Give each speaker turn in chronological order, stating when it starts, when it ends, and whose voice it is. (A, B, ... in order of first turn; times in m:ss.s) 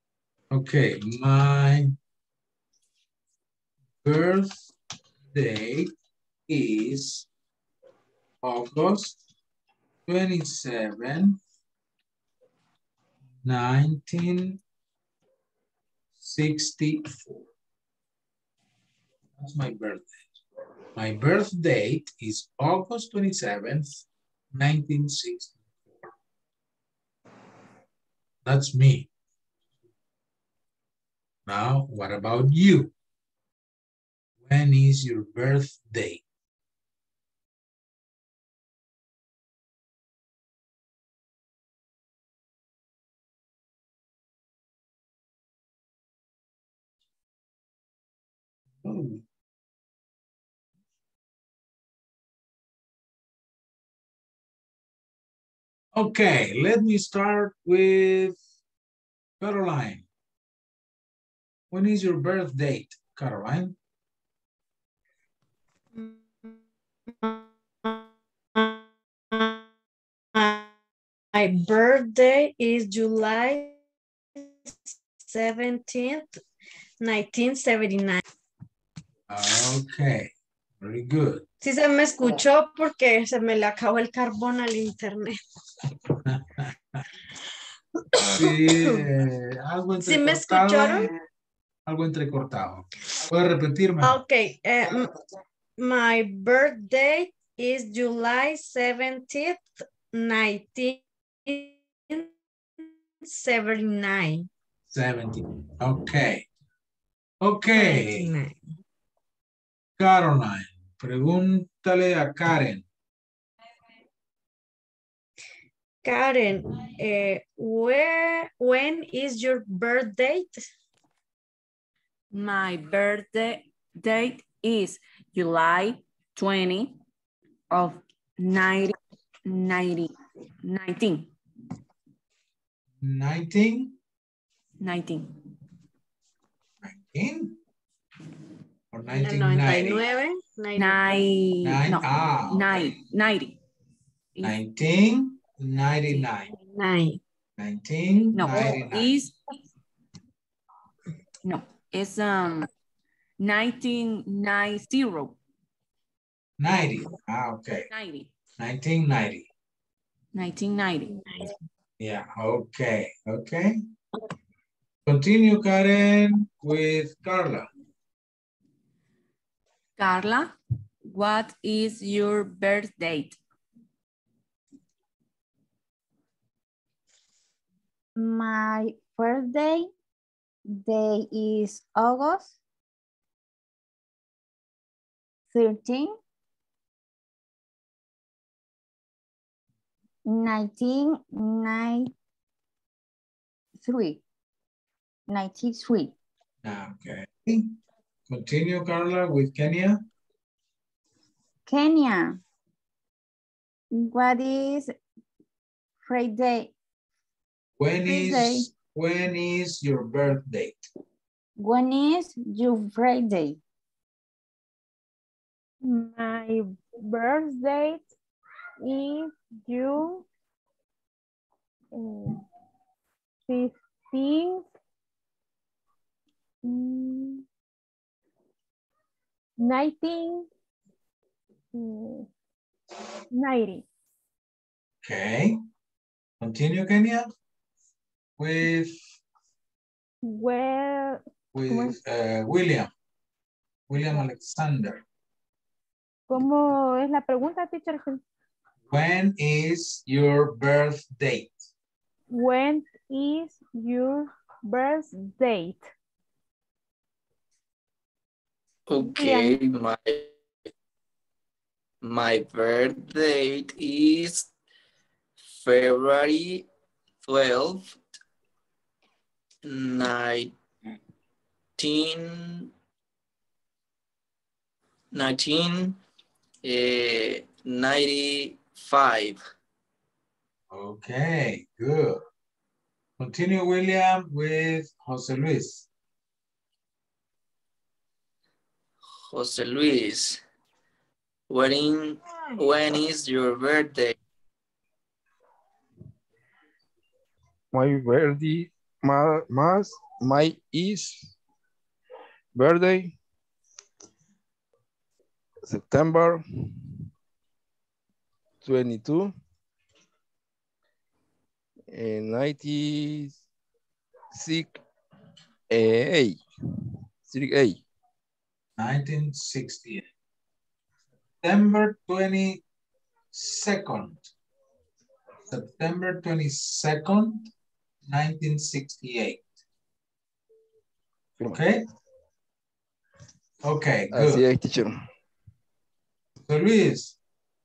0:00.5-0:01.9 A
0:04.0-0:04.7 A
0:05.3-0:05.9 A
0:06.5-0:07.3 A
0:08.4-0:09.2 A
0:10.1-0:11.4 A
0:13.4-0:14.6 A
0:16.2-0:17.4 A
0:19.4-0:20.3 A
0:21.0-0:26.1 A
0:28.4-0:29.1 A
0:31.5-0:32.9 A
0:34.4-0:36.2 A
0:48.8-0:49.2 A
0:55.9-0:58.4 A
0:59.4-1:00.0 A
1:01.7-1:03.8 A
1:05.9-1:06.6 B
1:07.2-1:09.6 B
1:10.4-1:10.7 B
1:11.3-1:13.8 B
1:14.6-1:16.4 B
1:17.0-1:18.2 B
1:19.3-1:21.4 A
1:21.6-1:25.4 B
1:26.2-1:27.0 A
1:28.2-1:29.0 B
1:28.4-1:31.1 A
1:30.0-1:31.1 B
1:31.9-1:34.2 A
1:34.0-1:35.1 B
1:35.8-1:42.3 B
1:42.8-1:44.5 B
1:44.9-1:46.5 A
1:47.4-1:48.3 A
1:47.7-1:48.6 B
1:50.0-1:52.8 A
1:56.0-2:00.6 B
2:02.3-2:07.0 C
2:07.7-2:09.0 C
2:09.5-2:10.1 C
2:10.6-2:11.3 C
2:13.0-2:14.0 A
2:14.8-2:15.3 C
2:16.8-2:17.6 A
2:18.9-2:20.0 A
2:19.2-2:21.1 B
2:20.8-2:23.6 C
2:21.6-2:22.8 A
2:24.4-2:26.5 A
2:26.6-2:27.2 B
2:27.6-2:29.1 A
2:28.3-2:29.4 C
2:31.4-2:32.7 C
2:33.4-2:35.4 C
2:36.6-2:37.9 A
2:37.9-2:38.3 C
2:38.6-2:39.5 A
2:40.4-2:41.2 C
2:42.0-2:43.8 A
2:45.0-2:47.7 A
2:50.0-2:50.5 C
2:51.1-2:53.4 C
2:58.2-2:59.9 D
3:00.7-3:02.5 D
3:05.5-3:06.2 D
3:10.3-3:12.1 D
3:13.8-3:14.2 D
3:15.3-3:16.1 D
3:16.6-3:17.7 A
3:18.3-3:20.0 A
3:21.7-3:22.4 D
3:23.9-3:24.9 D
3:26.0-3:26.7 D
3:27.8-3:30.9 A
3:28.1-3:28.7 D
3:31.6-3:33.6 D
3:35.8-3:38.1 E
3:38.8-3:40.2 E
3:41.9-3:42.4 E
3:43.5-3:44.7 E
3:46.6-3:47.4 E
3:49.6-3:50.5 E
3:51.7-3:52.3 E
3:53.3-3:53.8 E
3:55.0-3:55.6 A
3:56.4-3:57.3 A
3:58.4-3:59.0 A
4:00.2-4:02.0 E
4:01.5-4:02.9 A
4:03.9-4:05.0 A
4:06.3-4:08.2 E
4:08.9-4:11.6 A
4:12.3-4:15.9 E
4:18.9-4:20.4 F
4:22.0-4:24.5 F
4:25.6-4:26.7 F
4:27.2-4:27.9 F
4:29.6-4:30.5 F
4:31.8-4:32.7 F
4:35.1-4:36.0 F
4:36.6-4:39.4 F
4:40.7-4:42.2 A
4:43.2-4:45.9 A
4:49.3-4:50.4 F
4:51.5-4:54.2 F
4:57.7-5:01.3 G
5:02.5-5:03.2 G
5:05.6-5:06.4 G
5:08.6-5:09.3 G
5:11.9-5:13.4 G
5:14.3-5:14.8 G
5:15.7-5:16.4 G
5:17.3-5:17.8 G
5:18.8-5:20.1 A
5:21.4-5:22.6 A
5:23.3-5:24.3 A
5:25.5-5:27.5 A
5:28.1-5:29.4 A
5:31.4-5:31.8 A
5:33.6-5:34.5 A
5:34.1-5:34.9 G
5:36.5-5:37.2 A